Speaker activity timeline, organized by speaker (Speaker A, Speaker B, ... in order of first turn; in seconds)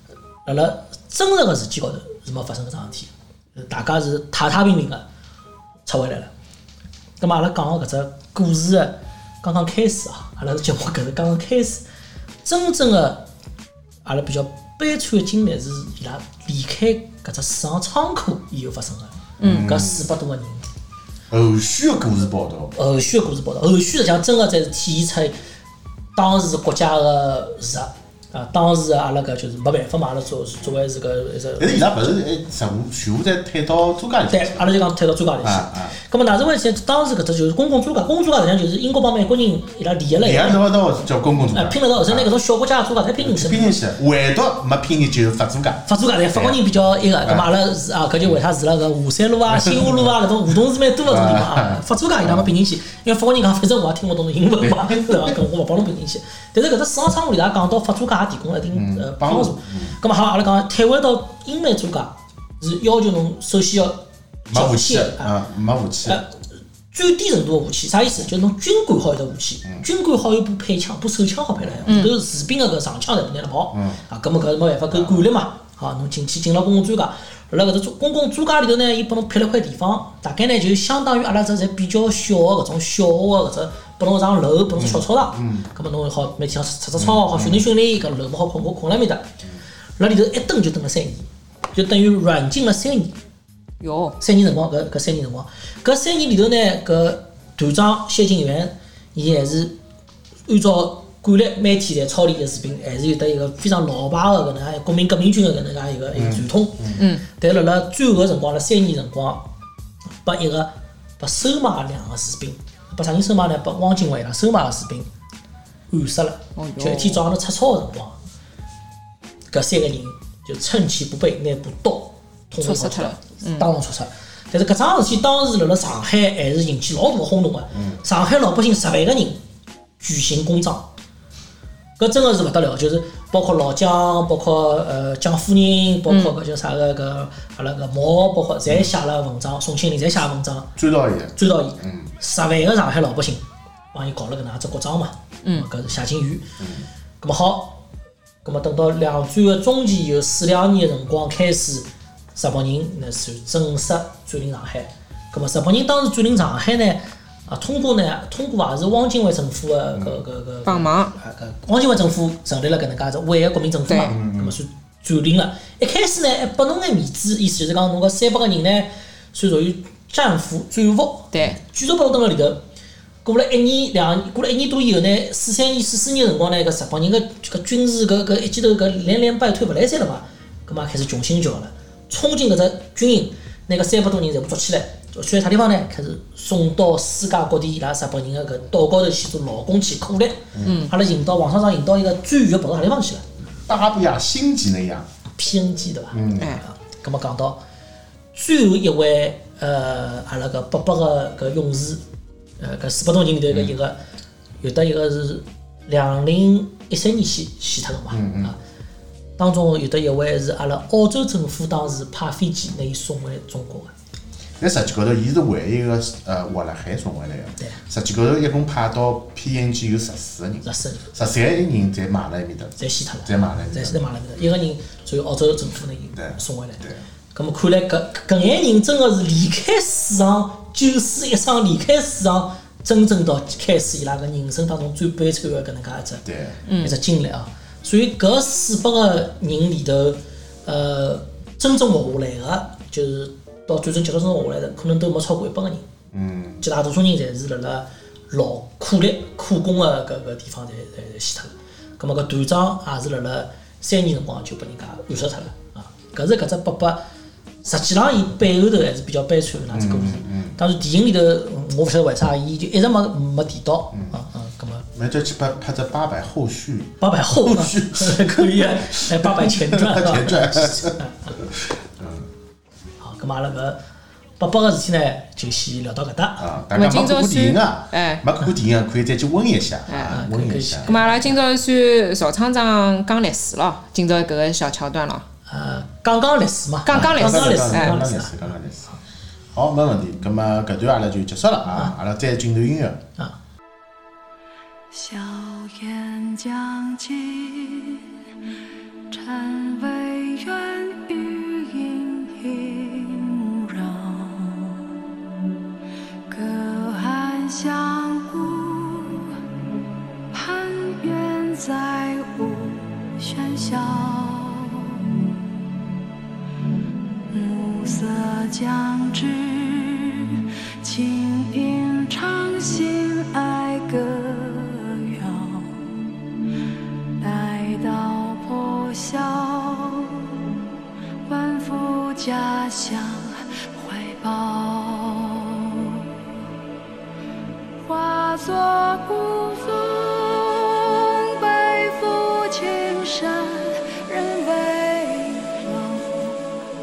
Speaker A: 0.4-5.0, 5.8-6.3, 7.2-11.8, 12.4-13.3, 14.0-20.7, 22.7-25.3, 26.1-32.1, 34.3-40.6, 41.5-43.8, 45.9-65.3, 66.0-66.4, 66.9-89.3, 90.0-93.1, 94.2-99.8, 100.5-109.5, 110.2-115.1, 115.9-118.2, 119.5-129.4, 130.0-130.9, 132.0-140.7, 141.3-146.4, 147.2-147.8, 148.4-172.6, 173.2-193.2, 195.4-197.6, 198.3-202.0, 202.6-204.0, 204.6-208.6, 209.4-213.9, 220.6-221.1, 222.8-236.2, 236.8-245.9, 246.6-257.0, 257.6-264.9, 267.0-271.3, 273.0-273.8, 274.4-276.5, 280.1-281.4, 285.5-288.5
Speaker B: 19.4-19.7, 71.9-72.1, 93.8-94.2, 107.0-107.2, 116.6-117.2, 122.6-123.7, 136.1-136.3, 160.7-161.1, 163.9-164.1, 190.6-190.9, 236.7-236.9, 276.7-278.2, 279.9-280.2, 280.9-285.2, 286.9-288.0
Speaker C: 19.4-20.1, 21.3-22.7, 31.6-34.7, 35.4-35.9, 40.2-42.3, 43.2-46.6, 47.2-47.5, 49.5-50.1, 51.0-52.5, 54.6-55.4, 58.7-59.9, 64.5-66.2, 71.6-71.9, 73.7-74.0, 74.9-75.2, 84.8-85.6, 87.0-87.6, 106.1-107.0, 140.8-142.1, 164.1-164.5, 193.7-195.1, 196.1-196.5, 208.1-208.5, 214.6-224.0, 226.1-227.0, 236.2-236.6, 246.1-246.6, 259.7-260.6, 264.9-272.2, 276.4-281.0, 286.9-288.9, 289.5-293.0
Speaker D: 294.9-298.0, 299.1-304.8, 306.3-309.3, 310.3-314.8, 317.3-325.9, 327.2-330.2, 331.2-336.0, 337.8-346.6